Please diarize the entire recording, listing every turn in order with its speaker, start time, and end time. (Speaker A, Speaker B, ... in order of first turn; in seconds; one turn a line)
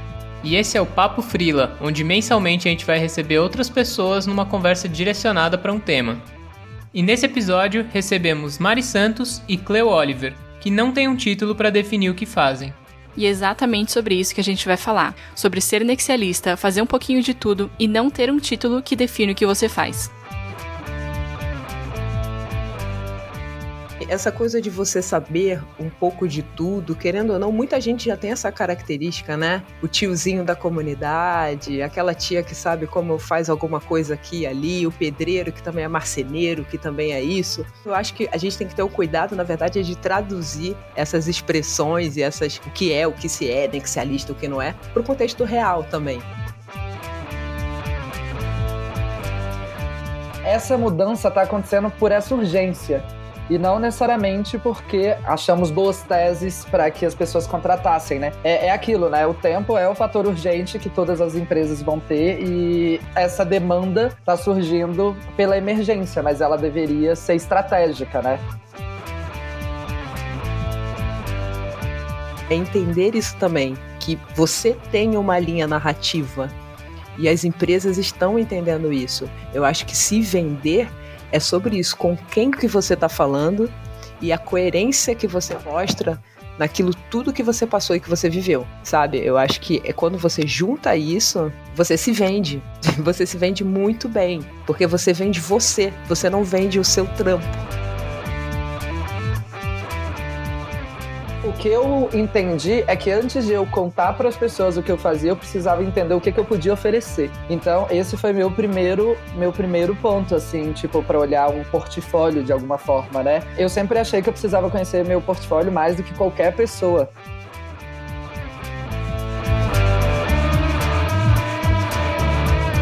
Speaker A: 0.4-6.2
Speaker A: 6.9-12.8
Speaker B: 13.2-20.1
Speaker C: 24.0-46.3
Speaker D: 50.4-68.4
Speaker C: 72.5-76.5
Speaker C: 77.2-97.6
Speaker D: 101.4-117.1